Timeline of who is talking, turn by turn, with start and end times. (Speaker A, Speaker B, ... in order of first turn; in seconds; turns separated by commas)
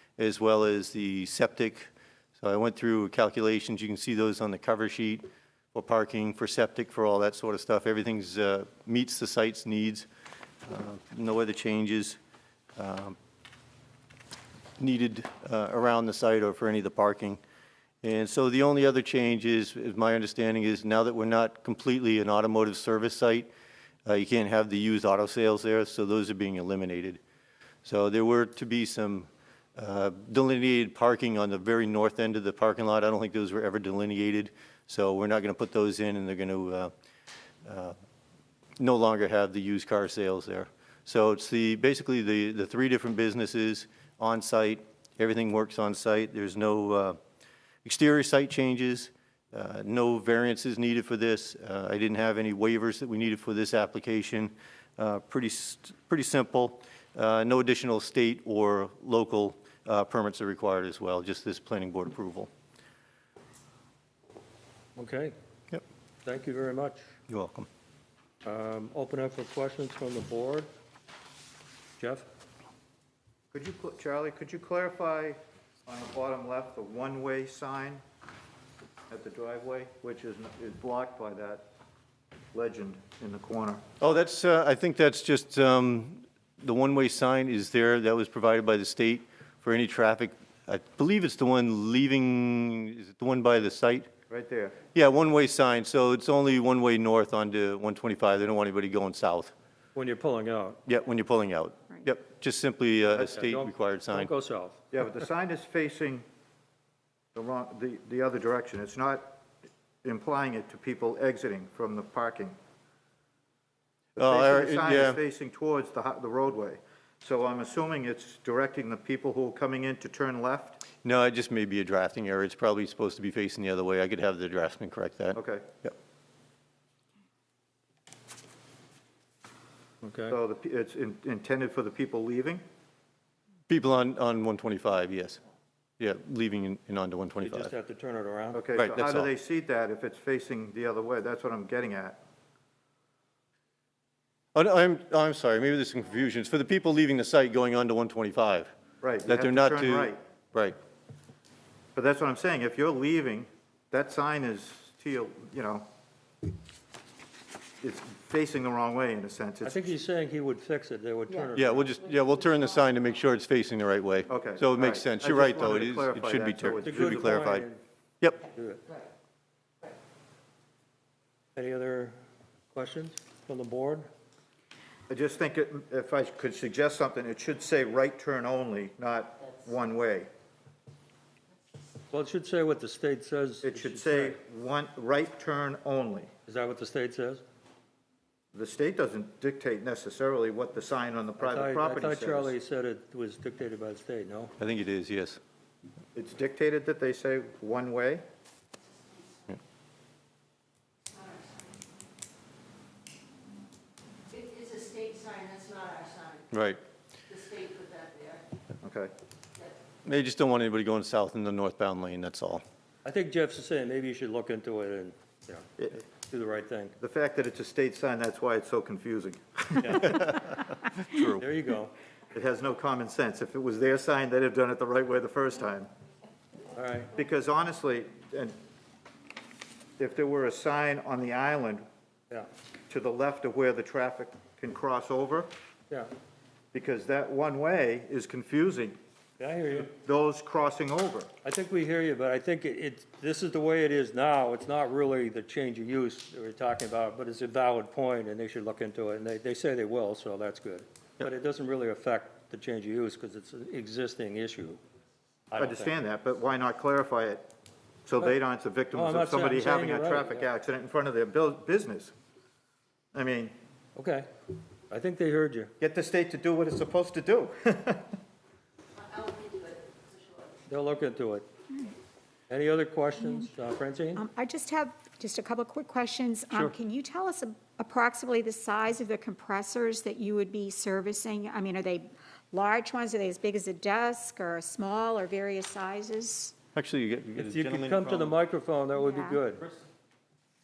Speaker A: 0.2-10.1, Speaker A: 10.7-12.2, Speaker A: 12.8-13.2, Speaker A: 14.8-17.4, Speaker A: 18.0-23.5, Speaker A: 24.1-27.2, Speaker A: 27.8-36.9, Speaker A: 37.6-38.0, Speaker A: 38.8-47.2, Speaker A: 47.8-62.5, Speaker B: 65.0-65.3, Speaker B: 66.2-67.0, Speaker A: 67.3-67.7, Speaker B: 68.4-70.7, Speaker B: 72.0-72.3, Speaker C: 73.5-78.0, Speaker C: 79.1-81.7, Speaker C: 82.5-83.8, Speaker A: 84.0-94.1, Speaker C: 94.3-94.8, Speaker A: 94.9-99.5, Speaker B: 99.9-100.8, Speaker A: 100.8-104.3, Speaker B: 103.1-104.8, Speaker C: 104.9-106.2, Speaker C: 107.3-109.4, Speaker C: 110.0-112.5, Speaker C: 114.2-120.8, Speaker A: 114.2-115.2, Speaker A: 121.0-125.9, Speaker C: 125.3-125.7, Speaker B: 130.0-130.3, Speaker C: 130.3-132.6, Speaker A: 133.7-135.4, Speaker A: 136.0-137.7, Speaker B: 137.4-138.6, Speaker C: 138.5-142.2, Speaker A: 138.8-139.3, Speaker A: 144.5-148.7, Speaker C: 149.0-150.2, Speaker A: 149.3-150.8, Speaker C: 151.9-155.9, Speaker C: 157.8-159.8, Speaker B: 159.6-161.9, Speaker A: 161.6-167.7, Speaker C: 164.3-167.4, Speaker B: 166.8-167.8, Speaker B: 168.4-168.8, Speaker B: 171.6-172.2, Speaker B: 172.7-174.1, Speaker C: 175.1-180.3, Speaker B: 182.1-184.4, Speaker C: 183.6-186.3, Speaker B: 186.5-187.4, Speaker C: 188.5-192.6, Speaker B: 191.4-194.5, Speaker A: 194.6-195.4, Speaker C: 196.1-198.2, Speaker D: 204.7-206.1, Speaker A: 206.5-206.8, Speaker D: 207.5-208.1, Speaker C: 208.8-209.1, Speaker A: 210.0-212.6, Speaker B: 213.0-215.7, Speaker C: 215.8-216.0, Speaker B: 216.2-216.9, Speaker C: 217.0-220.3, Speaker B: 219.8-220.2, Speaker A: 220.2-221.4, Speaker B: 221.4-221.9, Speaker C: 222.3-225.9, Speaker B: 226.8-227.1, Speaker C: 227.1-228.6, Speaker C: 230.0-231.8, Speaker C: 232.9-235.5, Speaker C: 236.7-239.0, Speaker B: 239.4-239.9, Speaker C: 239.8-241.3, Speaker B: 241.4-254.8, Speaker B: 255.5-255.9, Speaker C: 255.5-257.5, Speaker C: 258.1-262.1, Speaker B: 258.9-260.4, Speaker C: 263.1-263.5, Speaker B: 263.9-264.3, Speaker B: 264.9-265.7, Speaker C: 265.8-268.1, Speaker B: 270.7-271.5, Speaker B: 272.5-274.2, Speaker E: 273.2-273.5, Speaker E: 274.1-286.5, Speaker A: 286.7-288.4, Speaker B: 287.4-289.6, Speaker E: 288.9-289.4